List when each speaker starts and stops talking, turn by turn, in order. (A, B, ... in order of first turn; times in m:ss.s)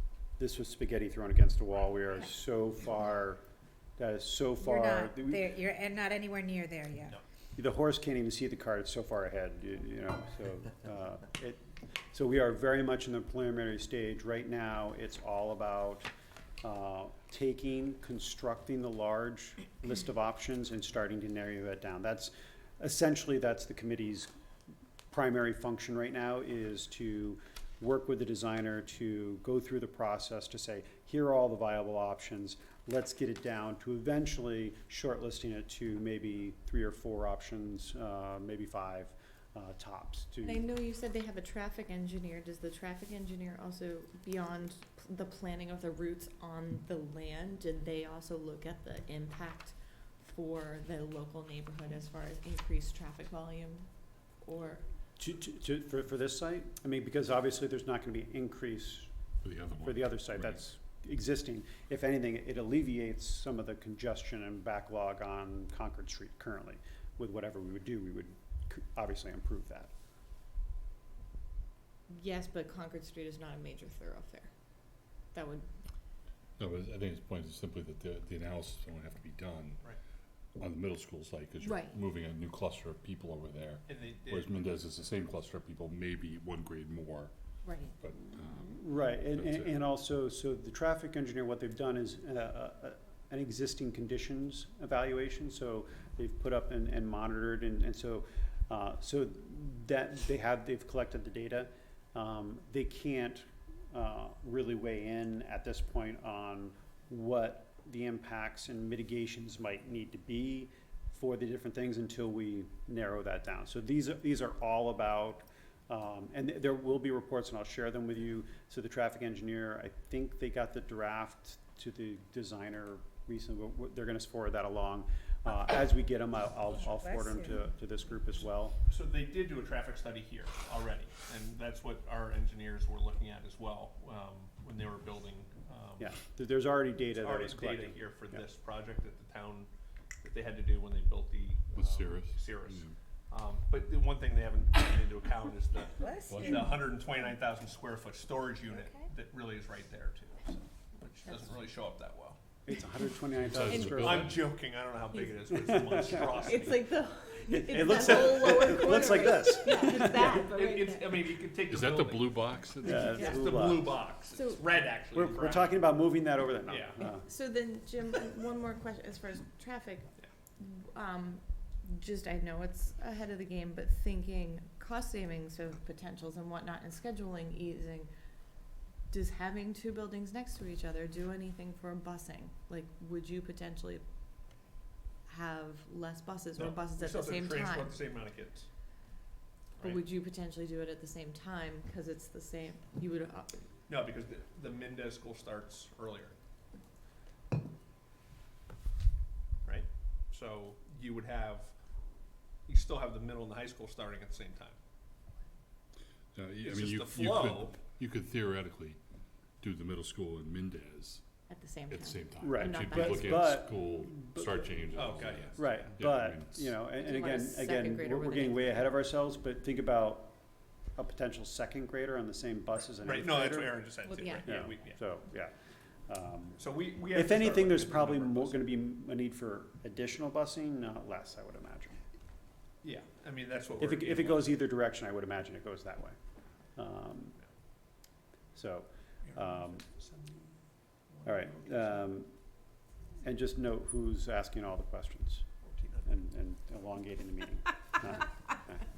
0:00.4-0:03.4 A
0:04.0-0:05.6 A
0:04.6-0:07.2 B
0:07.6-0:16.1 A
0:16.6-0:24.3 A
0:25.1-0:40.7 A
0:40.4-0:53.9 C
0:54.4-0:54.8 C
0:55.2-0:59.1 A
0:59.4-1:00.6 D
0:59.8-1:09.9 A
1:12.1-1:14.5 C
1:15.3-1:15.7 C
1:16.6-1:19.8 D
1:20.6-1:27.3 D
1:21.6-1:22.0 C
1:23.9-1:24.6 E
1:27.6-1:27.9 C
1:28.0-1:28.8 D
1:28.6-2:08.8 A
1:29.3-1:29.8 D
2:06.9-2:07.6 B
2:08.9-2:16.2 E
2:16.0-2:18.4 A
2:17.2-2:19.7 E
2:20.2-2:32.4 E
2:21.7-2:23.0 D
2:26.0-2:26.8 B
2:26.3-2:26.7 D
2:32.6-2:34.4 A
2:33.4-2:34.5 D
2:33.7-2:34.0 C
2:33.8-2:36.9 E
2:35.6-2:36.6 A
2:36.2-2:41.1 C
2:37.5-2:40.5 A
2:37.8-2:38.9 E
2:39.9-2:45.8 E
2:41.6-2:43.3 D
2:42.8-2:44.0 A
2:43.1-2:43.4 C
2:44.3-2:44.9 C
2:45.1-2:47.3 A
2:46.7-2:47.0 E
2:47.2-2:58.1 C
2:59.1-3:04.0 C
3:05.3-3:08.0 C
3:06.6-3:08.7 E
3:09.8-3:13.7 C
3:13.9-3:16.4 E
3:19.6-3:21.7 E
3:22.7-3:24.8 E
3:26.4-3:29.0 D
3:26.6-3:27.8 E
3:29.6-3:31.2 D
3:31.5-3:33.6 C
3:31.9-3:36.8 D
3:32.4-3:40.4 A
3:34.9-3:35.9 E
3:37.0-3:38.9 C
3:41.0-3:43.9 A
3:43.0-3:45.0 E
3:44.1-3:44.5 C
3:44.4-3:45.5 A
3:46.1-3:51.9 A
3:46.6-3:48.7 E
3:52.8-3:54.6 E
3:53.8-3:56.2 A
3:56.8-3:57.4 A
3:58.6-3:59.9 A
3:59.2-4:00.5 E
4:01.1-4:02.1 E
4:01.2-4:02.3 A
4:03.2-4:05.5 A
4:05.6-4:06.1 E
4:06.1-4:08.8 A